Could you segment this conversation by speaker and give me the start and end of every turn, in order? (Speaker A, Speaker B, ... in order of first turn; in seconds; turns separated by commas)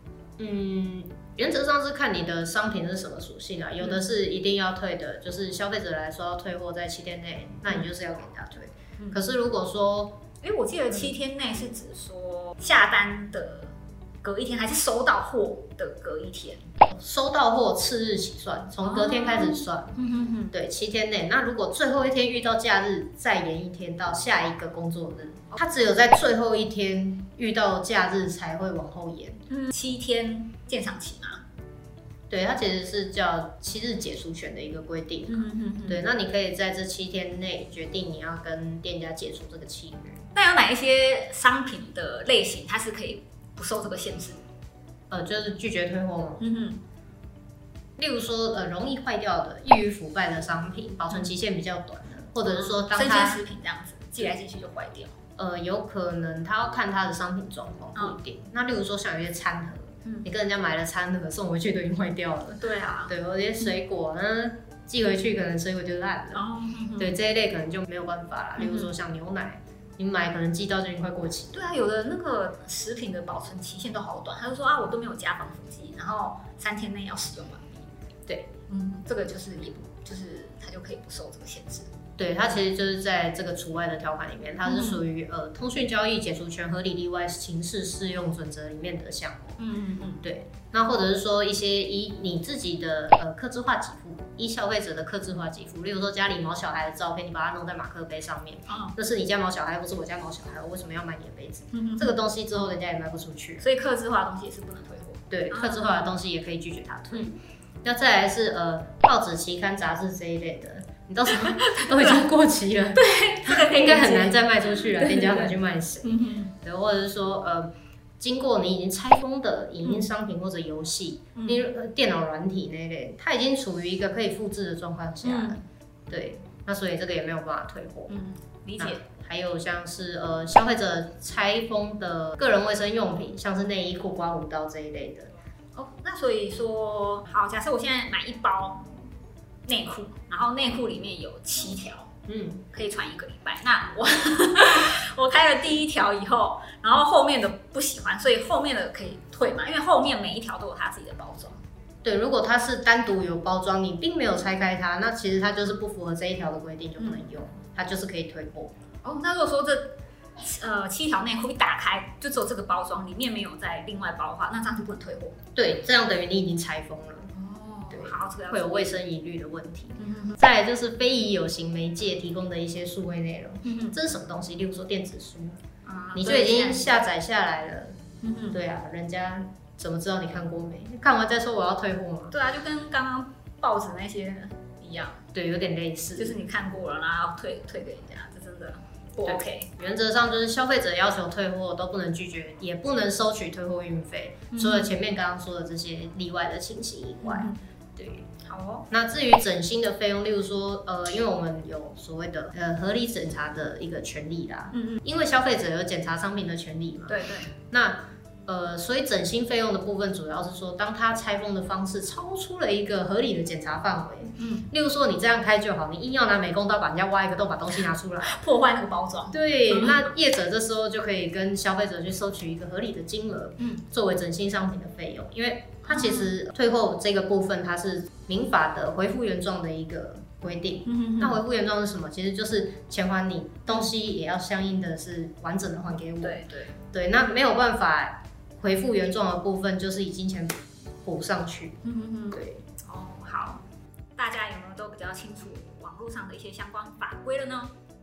Speaker A: 0.4-10.2, Speaker B: 3.8-4.1, Speaker B: 10.4-16.6, Speaker A: 16.9-20.0, Speaker B: 18.8-20.5, Speaker A: 20.5-29.4, Speaker B: 29.5-31.4, Speaker A: 32.3-40.2, Speaker B: 35.3-36.0, Speaker B: 40.3-44.4, Speaker A: 45.1-46.4, Speaker B: 46.4-46.8, Speaker A: 48.0-53.4, Speaker B: 52.5-55.1, Speaker A: 55.4-66.4, Speaker B: 62.6-63.1, Speaker B: 66.3-67.2, Speaker A: 67.0-71.6, Speaker B: 68.6-68.9, Speaker B: 71.5-77.9, Speaker B: 78.7-81.9, Speaker A: 82.2-89.6, Speaker B: 84.7-85.0, Speaker B: 89.6-90.2, Speaker A: 90.2-103.6, Speaker B: 98.7-99.0, Speaker B: 101.7-102.2, Speaker B: 103.6-106.1, Speaker A: 105.3-128.1, Speaker B: 111.5-112.3, Speaker B: 112.9-116.5, Speaker B: 119.8-120.1, Speaker B: 121.4-121.7, Speaker B: 125.2-125.6, Speaker B: 128.1-129.0, Speaker A: 128.8-135.3, Speaker B: 135.8-138.9, Speaker B: 139.7-142.1, Speaker A: 142.3-142.6, Speaker B: 142.7-151.6, Speaker A: 152.0-158.7, Speaker B: 159.0-165.4, Speaker A: 165.6-167.3, Speaker B: 167.3-169.0, Speaker A: 167.9-175.6, Speaker B: 170.0-170.4, Speaker B: 173.6-174.0, Speaker B: 175.8-177.0, Speaker A: 176.2-178.0, Speaker B: 178.2-178.6, Speaker A: 178.5-182.3, Speaker B: 182.3-185.2, Speaker A: 185.3-186.4, Speaker B: 186.2-189.7, Speaker A: 189.2-198.2, Speaker B: 194.5-194.9, Speaker B: 197.2-197.6, Speaker B: 198.4-198.9, Speaker A: 198.9-218.4, Speaker B: 204.7-205.0, Speaker B: 207.1-207.5, Speaker B: 214.4-214.7, Speaker B: 218.2-220.1, Speaker A: 219.3-236.4, Speaker B: 225.9-226.3, Speaker B: 230.9-231.4, Speaker B: 236.2-236.8, Speaker A: 236.9-241.8, Speaker B: 241.8-243.6, Speaker A: 242.3-242.6, Speaker B: 244.2-247.7